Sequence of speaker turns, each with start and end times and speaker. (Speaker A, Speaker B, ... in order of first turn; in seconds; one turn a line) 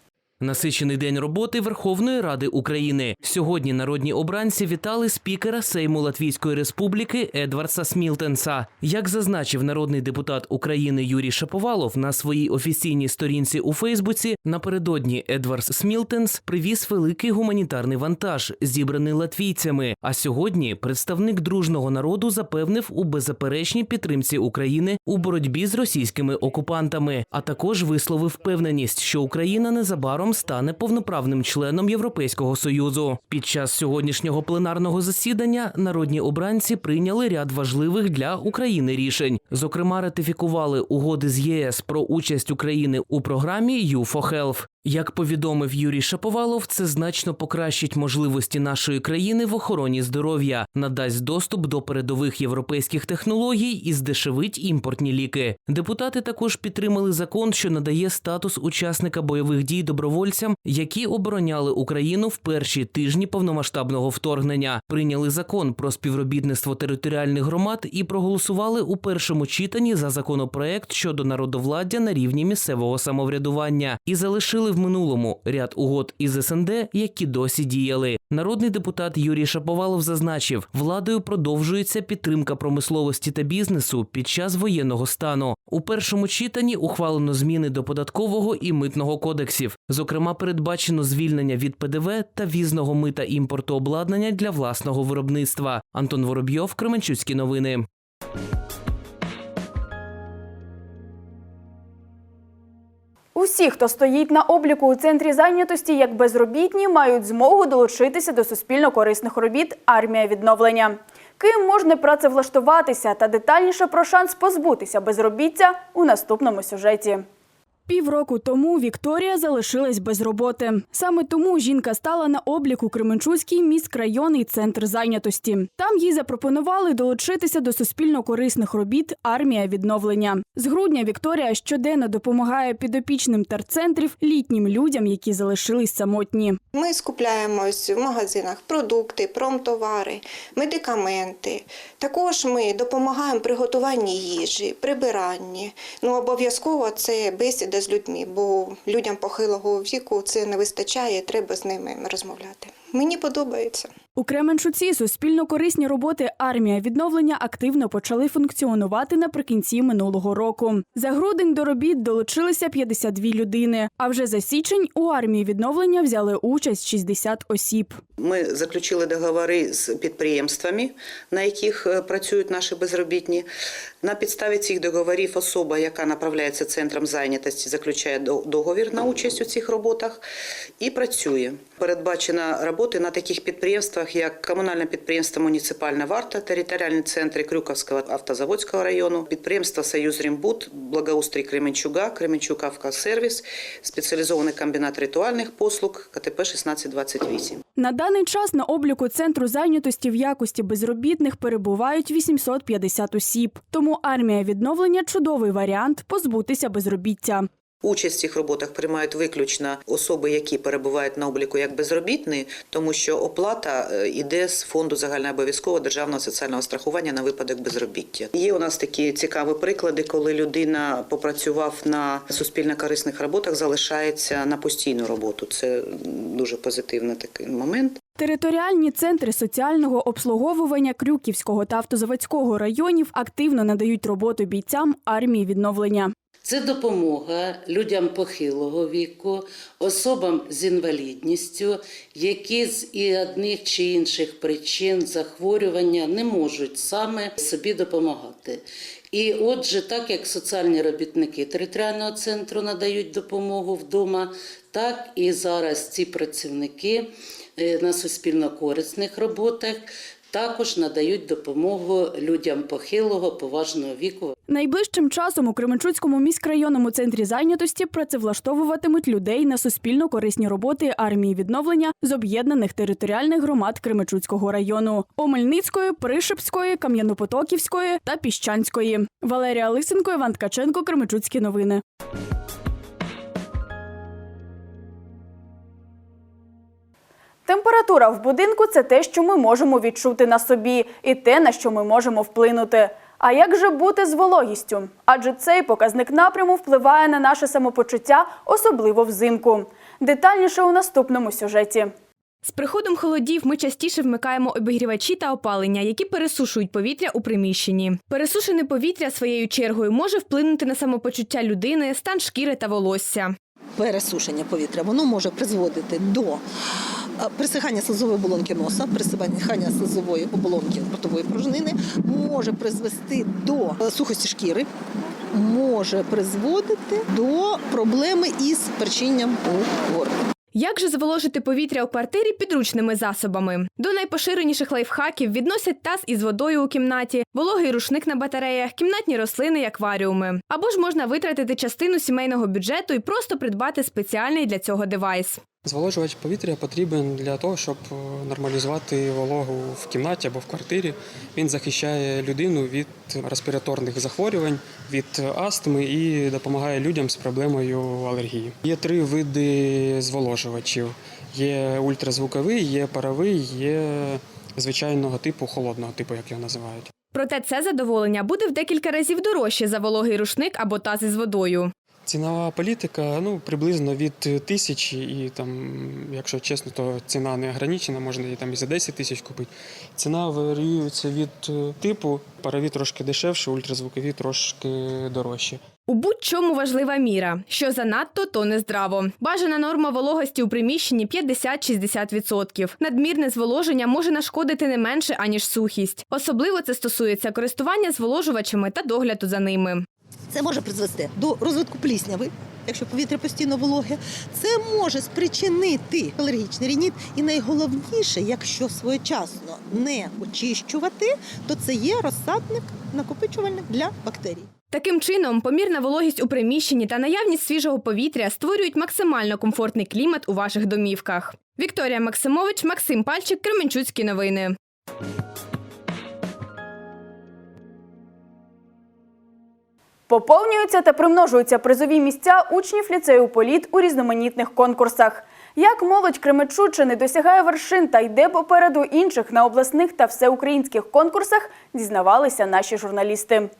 Speaker A: 0.4-97.8
Speaker B: 103.3-117.2
Speaker B: 117.9-136.6
Speaker C: 136.7-153.9
Speaker B: 154.2-168.0
Speaker D: 168.2-173.5
Speaker D: 174.0-180.2
Speaker D: 180.8-197.6
Speaker B: 197.8-207.5
Speaker D: 207.8-228.0
Speaker B: 228.2-236.1
Speaker E: 236.4-248.6
Speaker E: 249.1-264.3
Speaker B: 264.5-281.8
Speaker B: 287.4-301.9
Speaker F: 302.4-313.3
Speaker G: 313.8-316.4
Speaker G: 317.2-324.7
Speaker G: 325.3-330.2
Speaker F: 330.5-345.4
Speaker H: 345.6-366.9
Speaker F: 367.1-371.7
Speaker H: 372.1-385.6
Speaker F: 385.9-399.8
Speaker G: 400.3-414.5
Speaker F: 414.7-424.6
Speaker B: 430.1-443.5